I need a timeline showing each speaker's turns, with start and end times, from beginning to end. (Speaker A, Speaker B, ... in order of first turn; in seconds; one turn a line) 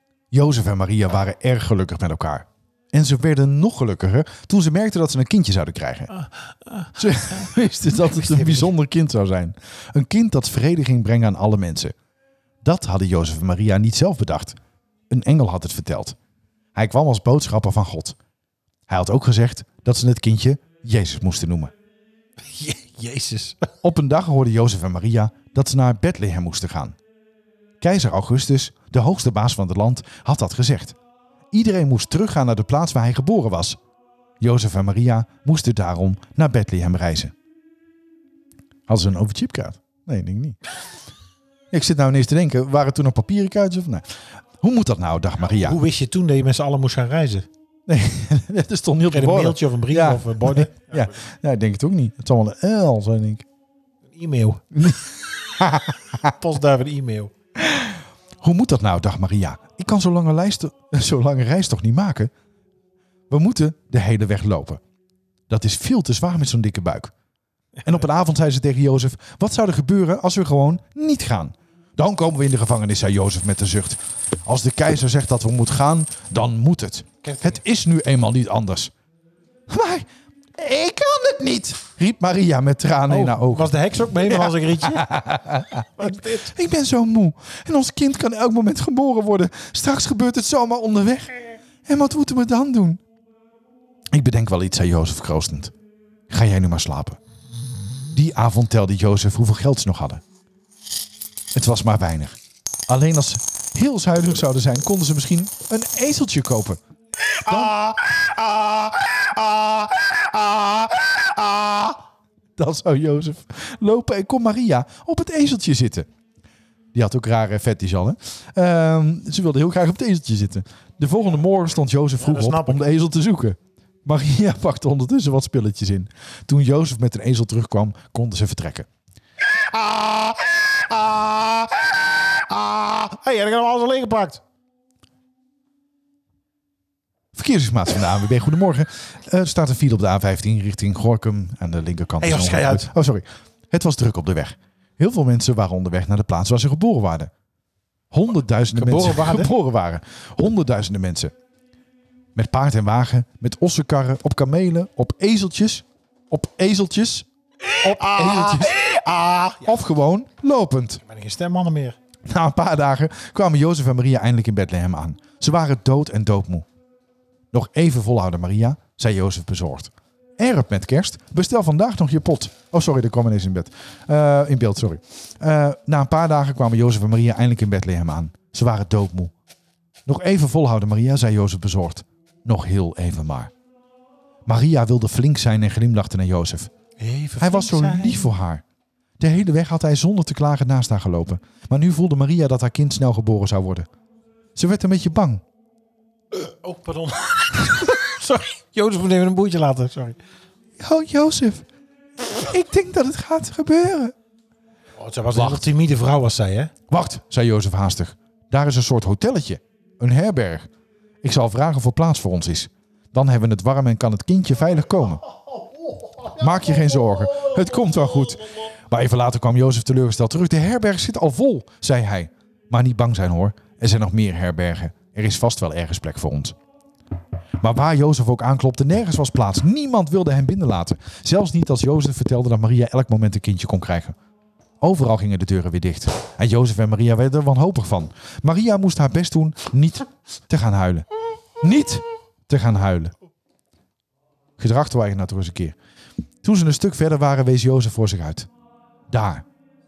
Speaker A: 0.3-6.1
Speaker B: 6.1-8.7
Speaker A: 7.0-11.9
Speaker A: 12.6-14.6
Speaker A: 15.1-16.1
Speaker A: 16.7-18.1
Speaker A: 18.9-21.7
Speaker B: 22.5-23.7
Speaker A: 23.8-26.9
Speaker A: 27.8-30.9
Speaker A: 31.5-33.8
Speaker A: 34.4-37.3
Speaker A: 38.9-40.6
Speaker A: 41.7-45.8
Speaker B: 45.5-47.5
Speaker A: 47.9-53.4
Speaker B: 49.1-51.1
Speaker B: 54.1-54.6
Speaker A: 54.7-55.0
Speaker A: 55.5-56.3
Speaker B: 56.2-57.3
Speaker A: 57.6-62.3
Speaker A: 63.3-64.8
Speaker A: 65.5-67.1
Speaker A: 67.8-78.9
Speaker B: 77.2-77.6
Speaker A: 79.7-83.7
Speaker B: 83.1-85.1
Speaker A: 84.2-93.0
Speaker B: 86.0-86.5
Speaker A: 94.1-95.7
Speaker A: 96.3-97.2
Speaker A: 98.1-100.2
Speaker A: 101.5-102.4
Speaker A: 102.9-106.8
Speaker B: 107.4-112.0
Speaker A: 107.4-107.8
Speaker A: 112.6-116.1
Speaker A: 116.9-128.9
Speaker B: 122.2-122.8
Speaker B: 129.6-134.4
Speaker A: 137.3-147.3
Speaker B: 142.2-142.9
Speaker A: 148.1-151.3
Speaker B: 148.7-149.5
Speaker A: 152.3-157.2
Speaker B: 157.7-159.8
Speaker A: 157.8-158.8
Speaker A: 159.6-161.0
Speaker B: 161.0-162.0
Speaker A: 162.3-166.7
Speaker A: 167.5-179.3
Speaker A: 180.1-183.5
Speaker A: 184.4-186.7
Speaker B: 187.0-188.3
Speaker A: 187.4-188.6
Speaker A: 189.2-193.9
Speaker A: 194.6-195.4
Speaker B: 196.3-200.2
Speaker A: 200.8-201.7
Speaker A: 202.4-204.1
Speaker B: 205.0-206.7
Speaker A: 205.3-205.7
Speaker A: 206.9-210.7
Speaker A: 211.2-215.2
Speaker B: 215.5-217.9
Speaker A: 216.3-226.6
Speaker A: 227.6-234.2
Speaker A: 234.8-241.1
Speaker A: 241.6-243.1
Speaker A: 244.6-245.8
Speaker A: 246.4-248.5
Speaker A: 249.1-249.4